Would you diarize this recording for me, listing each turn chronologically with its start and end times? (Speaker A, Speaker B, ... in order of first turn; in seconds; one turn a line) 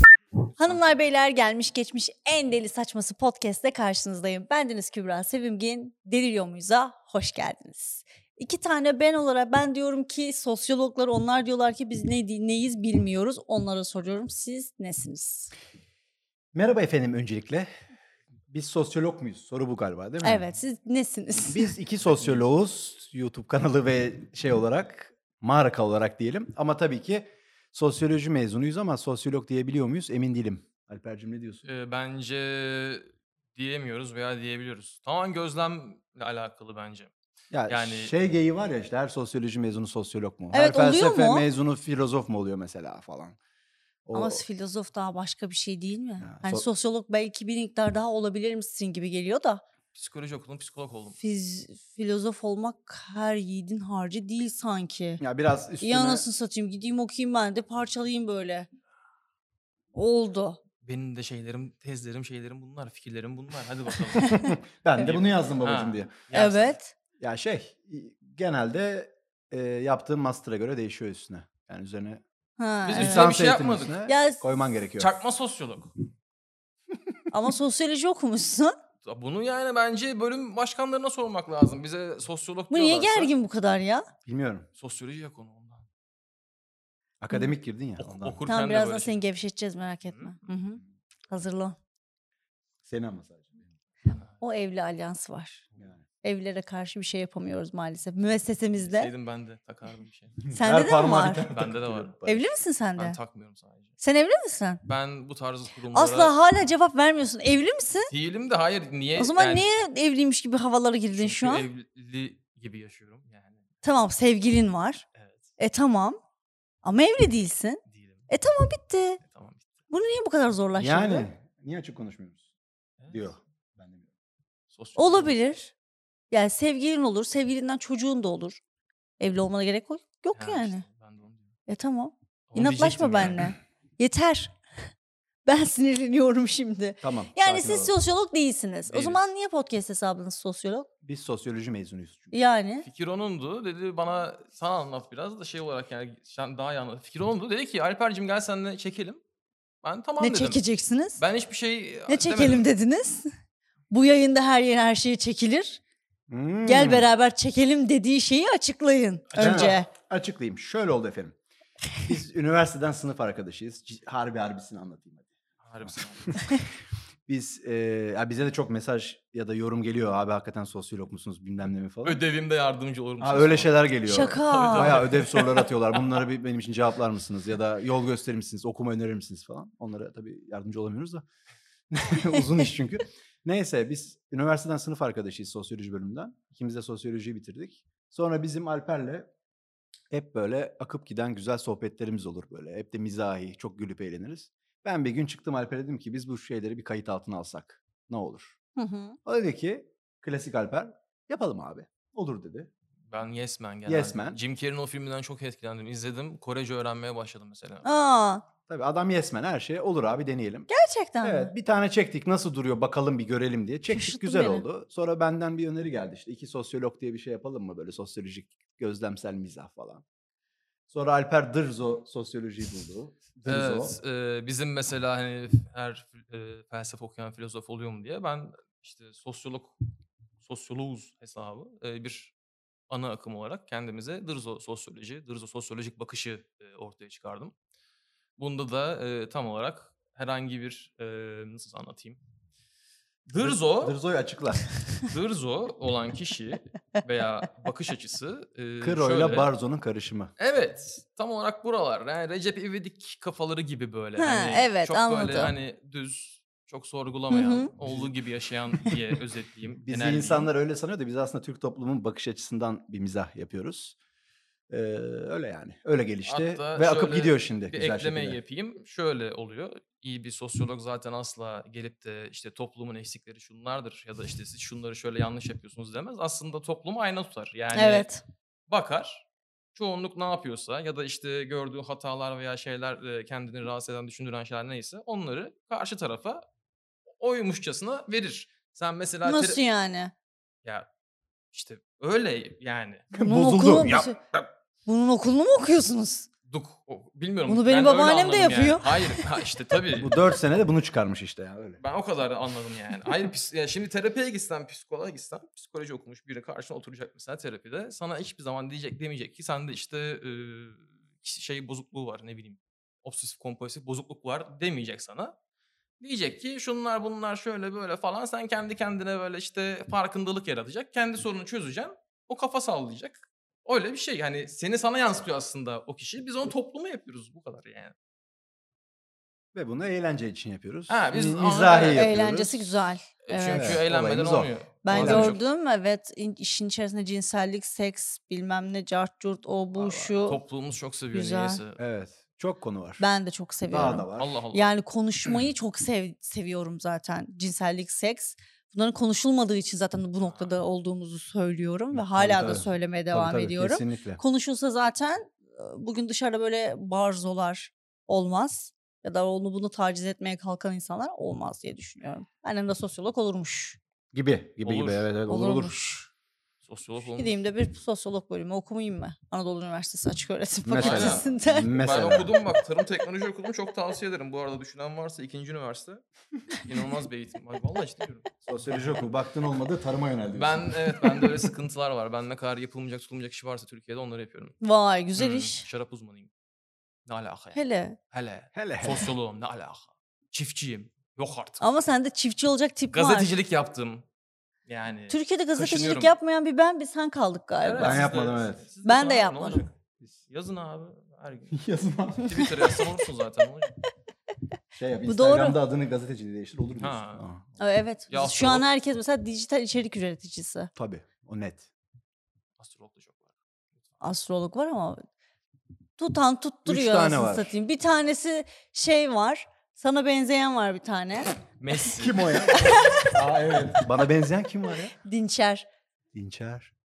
Speaker A: 0.6-15.5
Speaker B: 16.5-17.7
Speaker B: 18.5-20.5
Speaker A: 20.2-21.7
Speaker B: 21.5-31.6
Speaker C: 31.6-37.1
Speaker B: 37.5-43.4
Speaker C: 37.7-38.1
Speaker A: 40.5-41.5
Speaker B: 44.1-44.4
Speaker A: 44.1-49.6
Speaker B: 46.2-46.6
Speaker C: 49.9-51.2
Speaker A: 51.2-55.2
Speaker B: 55.2-56.2
Speaker A: 55.8-58.7
Speaker A: 59.9-60.6
Speaker C: 60.8-64.4
Speaker A: 64.1-64.5
Speaker B: 64.3-66.1
Speaker C: 65.0-66.8
Speaker A: 66.3-66.9
Speaker B: 67.2-72.2
Speaker A: 72.6-73.3
Speaker C: 72.9-74.0
Speaker B: 72.9-75.2
Speaker A: 74.1-74.4
Speaker C: 75.0-75.9
Speaker A: 77.3-78.7
Speaker C: 79.0-83.3
Speaker A: 82.7-84.1
Speaker B: 84.3-84.7
Speaker C: 84.8-85.9
Speaker B: 87.2-88.4
Speaker C: 88.0-89.2
Speaker A: 88.5-91.8
Speaker C: 90.1-90.4
Speaker B: 92.9-93.6
Speaker A: 94.4-95.7
Speaker A: 96.2-99.1
Speaker C: 98.8-100.4
Speaker B: 100.4-102.5
Speaker A: 100.5-101.4
Speaker C: 101.5-102.2
Speaker A: 102.2-103.2
Speaker C: 103.0-104.0
Speaker A: 104.0-104.8
Speaker C: 104.9-106.3
Speaker A: 105.9-108.1
Speaker C: 108.1-109.7
Speaker A: 109.2-111.6
Speaker C: 111.1-113.6
Speaker A: 113.8-115.0
Speaker C: 115.2-115.4
Speaker A: 115.6-116.2
Speaker A: 116.8-119.2
Speaker C: 117.9-118.2
Speaker C: 119.2-119.7
Speaker A: 119.9-121.3
Speaker B: 120.8-122.5
Speaker C: 123.0-123.3
Speaker B: 123.1-124.1
Speaker C: 124.7-125.4
Speaker A: 125.0-125.7
Speaker A: 126.3-128.6
Speaker A: 129.2-130.8
Speaker C: 130.4-131.5
Speaker A: 131.7-134.5
Speaker C: 132.5-133.6
Speaker A: 135.4-140.9
Speaker B: 137.0-137.9
Speaker C: 138.9-139.2
Speaker B: 141.0-142.3
Speaker A: 142.3-142.9
Speaker C: 142.8-149.2
Speaker C: 149.8-150.6
Speaker A: 150.2-151.2
Speaker C: 151.2-152.7
Speaker A: 152.1-153.3
Speaker A: 153.9-155.8
Speaker B: 156.3-157.1
Speaker A: 156.6-159.9
Speaker C: 159.3-159.8
Speaker B: 159.4-161.4
Speaker B: 162.0-165.3
Speaker C: 165.6-166.4
Speaker B: 167.3-172.2
Speaker C: 172.1-176.0
Speaker B: 173.2-181.2
Speaker A: 174.1-175.1
Speaker B: 181.9-189.3
Speaker B: 190.1-198.6
Speaker A: 198.8-199.2
Speaker B: 199.3-202.7
Speaker C: 203.1-207.9
Speaker B: 203.9-204.4
Speaker A: 207.8-208.4
Speaker B: 208.7-210.7
Speaker A: 210.7-211.5
Speaker B: 211.2-220.0
Speaker A: 213.9-214.6
Speaker B: 220.9-224.0
Speaker C: 223.5-229.8
Speaker C: 230.4-232.3
Speaker C: 232.9-237.5
Speaker C: 238.4-242.2
Speaker C: 243.3-244.0
Speaker B: 243.4-244.7
Speaker C: 244.9-249.5
Speaker B: 248.8-250.3
Speaker C: 250.4-260.5
Speaker A: 254.2-255.5
Speaker A: 257.3-257.7
Speaker B: 257.8-258.1
Speaker B: 259.8-264.0
Speaker B: 264.7-268.4
Speaker C: 266.3-278.1
Speaker A: 277.7-278.2
Speaker C: 278.7-286.4
Speaker C: 287.2-289.6
Speaker A: 289.2-290.1
Speaker C: 291.5-293.1
Speaker B: 293.1-294.5
Speaker A: 293.2-294.2
Speaker A: 294.9-296.3
Speaker C: 296.5-300.2
Speaker A: 297.5-299.3
Speaker B: 300.0-301.8
Speaker C: 301.8-315.4
Speaker C: 316.0-327.9
Speaker B: 329.5-332.6
Speaker C: 330.9-332.1
Speaker A: 331.9-333.8
Speaker C: 333.2-335.4
Speaker B: 333.5-335.4
Speaker A: 334.8-340.4
Speaker B: 339.8-340.3
Speaker C: 340.2-341.8
Speaker A: 341.1-341.6
Speaker B: 341.8-343.0
Speaker A: 343.0-363.8
Speaker B: 343.7-344.4
Speaker C: 344.1-344.7
Speaker C: 350.2-350.6
Speaker B: 351.9-354.2
Speaker B: 364.1-365.8
Speaker C: 364.6-365.1
Speaker A: 365.3-366.1
Speaker C: 366.6-367.4
Speaker A: 367.1-371.8
Speaker B: 370.6-372.4
Speaker C: 370.8-376.0
Speaker C: 376.6-378.9
Speaker B: 378.5-381.5
Speaker C: 380.3-384.6
Speaker A: 384.6-385.6
Speaker C: 385.2-386.3
Speaker C: 387.1-387.6
Speaker A: 387.5-388.0
Speaker C: 388.1-391.6
Speaker B: 388.5-389.1
Speaker A: 391.6-393.3
Speaker C: 392.9-394.1
Speaker C: 394.7-396.2
Speaker A: 395.1-398.1
Speaker C: 397.6-399.7
Speaker B: 397.8-398.6
Speaker A: 398.8-399.7
Speaker C: 400.3-401.6
Speaker B: 401.5-402.7
Speaker C: 402.2-403.8
Speaker B: 404.8-407.4
Speaker A: 405.1-405.6
Speaker C: 406.8-407.2
Speaker A: 407.6-410.7
Speaker C: 408.1-408.7
Speaker B: 410.8-411.7
Speaker C: 412.6-413.3
Speaker A: 414.0-415.0
Speaker A: 416.0-421.4
Speaker B: 416.7-417.6
Speaker C: 421.6-422.6
Speaker B: 422.0-424.9
Speaker A: 422.5-423.2
Speaker A: 425.0-425.7
Speaker B: 426.1-426.7